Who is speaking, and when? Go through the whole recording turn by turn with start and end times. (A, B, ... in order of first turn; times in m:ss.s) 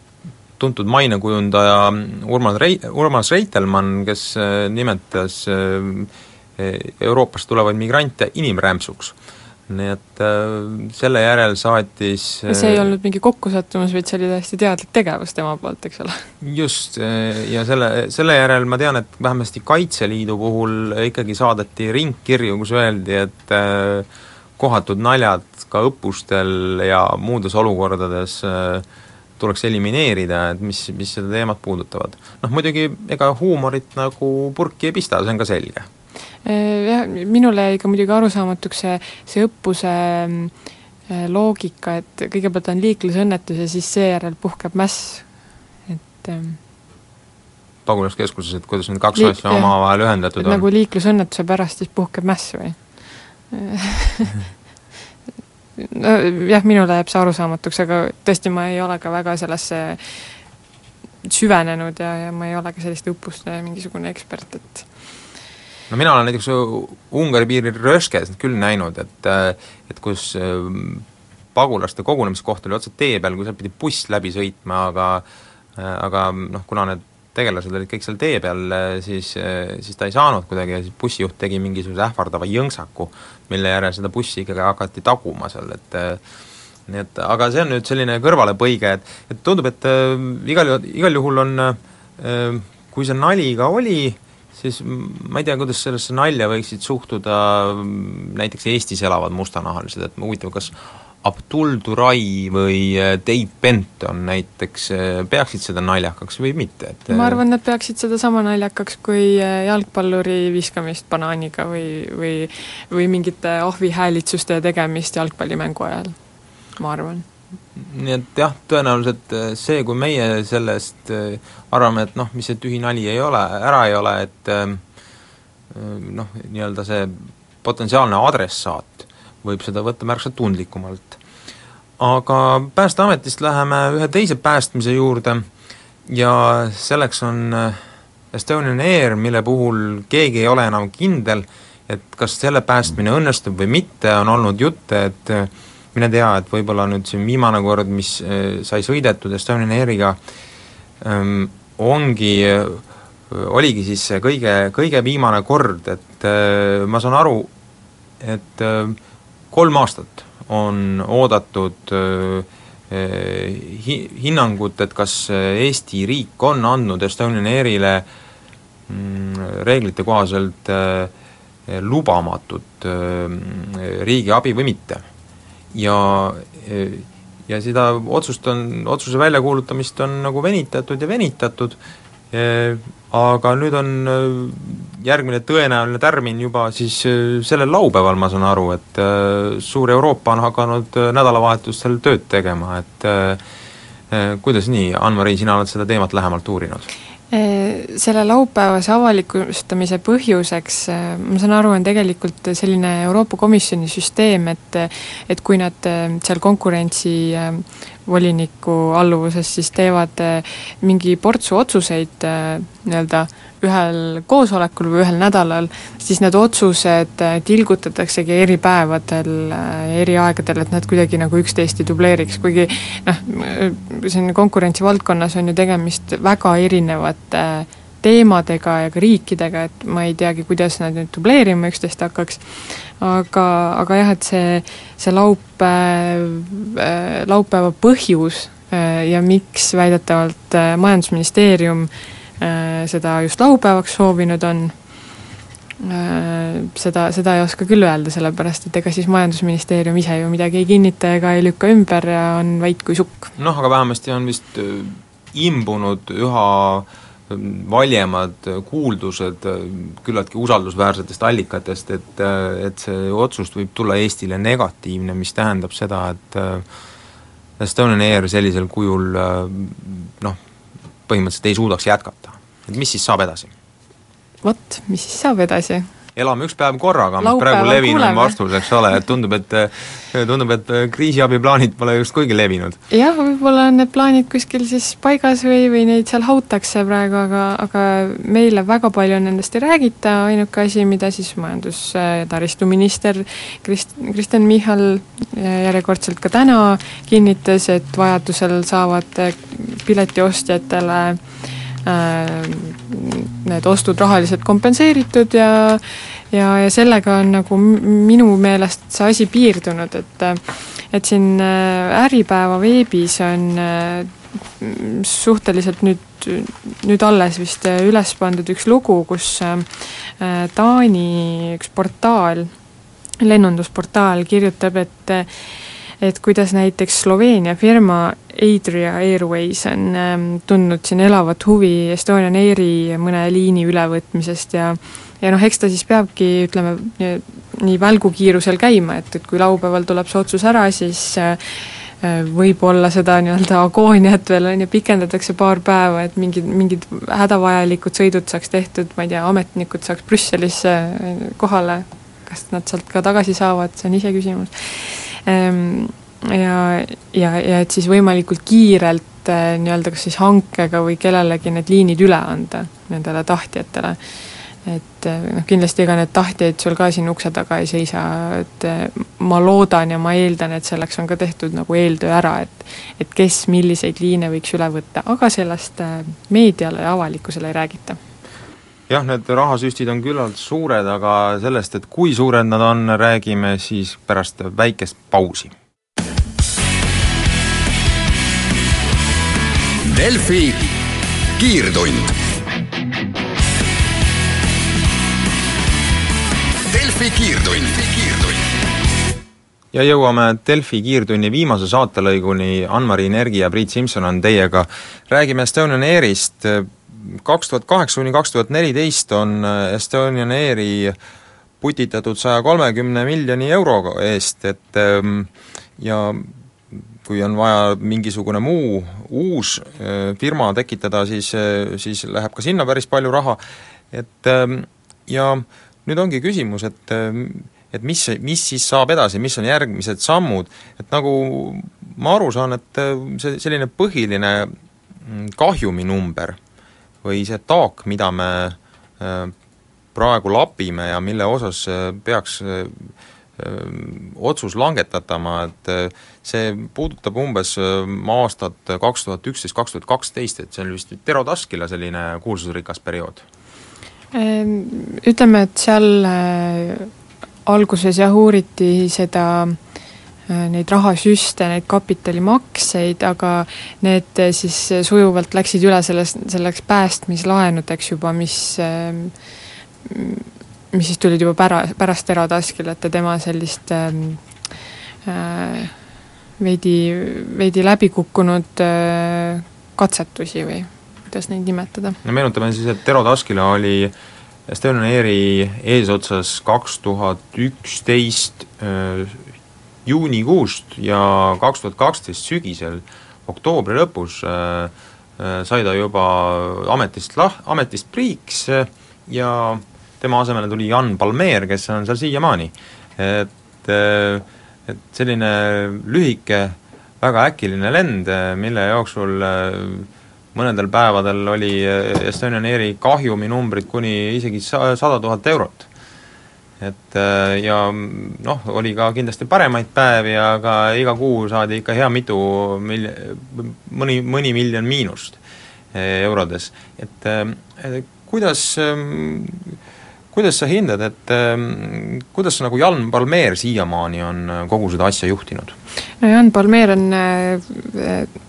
0:00.6-0:09.2 A
0:09.7-0:12.9 A
0:12.5-0:16.3 B
0:16.4-0:24.1 A
0:24.6-0:28.8 A
0:29.4-0:35.9 A
0:36.4-0:40.5 B
0:41.1-0:45.3 B
0:45.9-0:46.6 B
0:47.9-0:50.6 A
0:49.2-0:49.8 B
0:50.4-0:52.8 B
0:53.5-0:54.4 B
0:55.8-1:00.2 B
1:01.2-1:04.9 B
1:05.9-1:15.2 A
1:15.8-1:26.2 A
1:26.9-1:47.4 A
1:47.1-1:56.2 B
1:56.8-1:57.2 B
1:57.8-2:04.8 A
2:05.7-2:11.2 A
2:12.0-2:15.5 A
2:16.1-2:17.8 A
2:18.3-2:30.2 A
2:31.0-2:37.5 A
2:38.2-2:39.0 A
2:39.5-2:48.1 A
2:48.9-2:51.1 A
2:51.7-2:55.0 A
2:55.7-3:01.8 A
3:02.3-3:13.4 A
3:14.1-3:16.9 A
3:17.3-4:04.7 B
4:05.8-4:13.3 B
4:13.4-4:26.6 A
4:27.6-4:30.4 A
4:31.1-4:33.5 A
4:34.4-4:35.9 B
4:36.2-4:42.8 A
4:37.2-4:38.4 B
4:42.9-5:01.2 B
5:01.8-5:22.5 B
5:23.2-5:25.5 B
5:26.0-6:04.0 B
6:04.6-6:18.0 B
6:18.9-6:25.5 A
6:29.8-6:30.7 C
6:31.4-6:32.1 C
6:36.7-6:38.5 C
6:39.7-6:51.0 A
6:51.6-7:03.4 A
7:03.9-7:16.4 A
7:17.0-7:19.3 A
7:19.9-7:33.2 A
7:34.1-7:36.9 B
7:37.5-7:39.6 B
7:40.3-7:49.1 B
7:49.8-7:54.2 B
7:55.0-7:55.7 B
7:56.4-8:02.0 B
8:02.0-8:03.9 A
8:04.5-8:09.2 A
8:09.8-8:35.7 A
8:36.6-8:45.2 A
8:45.7-8:49.6 A
8:50.1-8:55.6 A
8:56.0-8:58.1 B